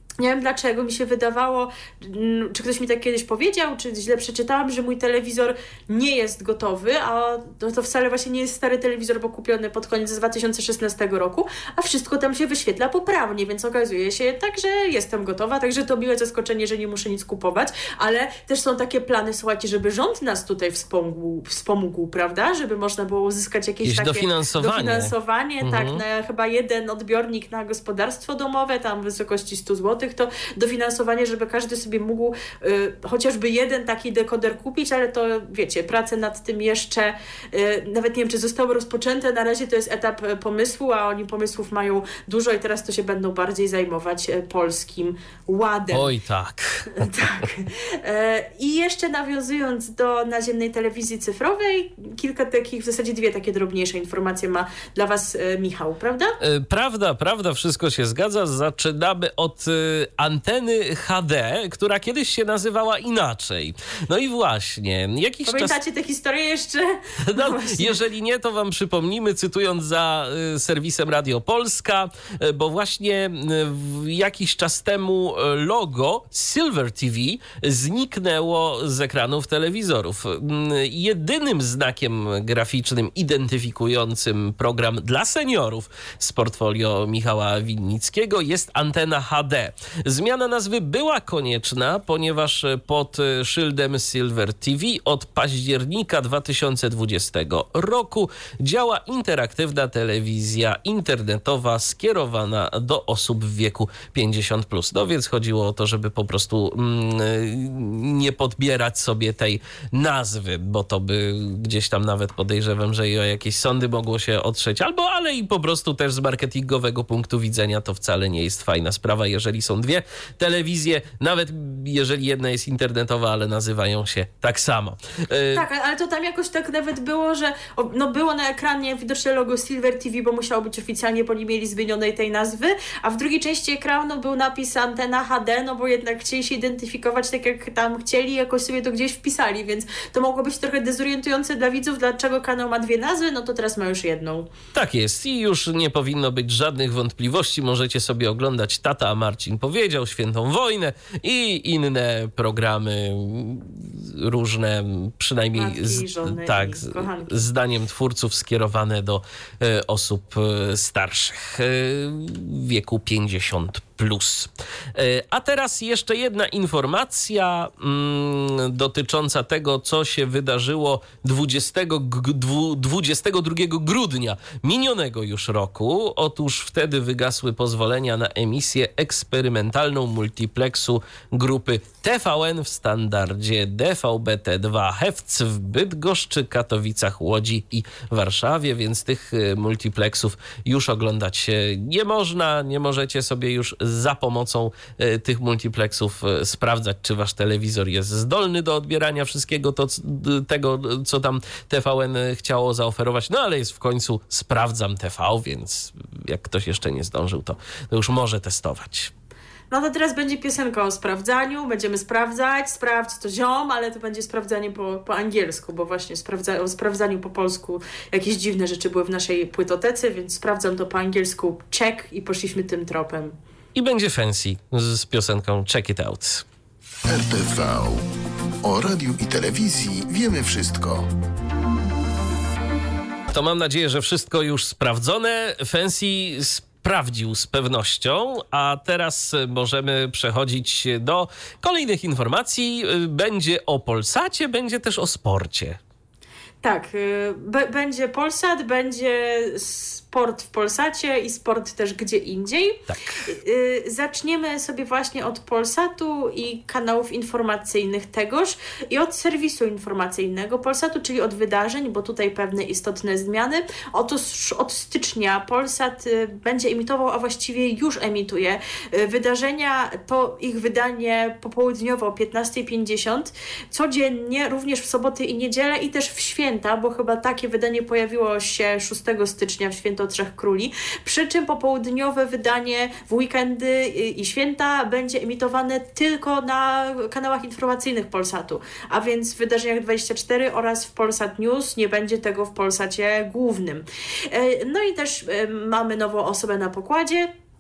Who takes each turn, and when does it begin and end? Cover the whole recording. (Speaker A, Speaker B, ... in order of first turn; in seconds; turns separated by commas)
Speaker A: 0.2-46.1, Speaker B: 23.9-26.0, Speaker B: 45.9-47.2, Speaker A: 47.0-56.4, Speaker B: 56.4-65.8, Speaker A: 65.5-68.0, Speaker B: 67.3-125.6, Speaker A: 125.5-144.5, Speaker B: 144.7-209.1, Speaker A: 155.6-157.5, Speaker A: 209.7-223.3, Speaker B: 223.8-226.4, Speaker C: 227.1-228.1, Speaker C: 228.6-231.1, Speaker B: 233.3-245.8, Speaker A: 246.6-297.3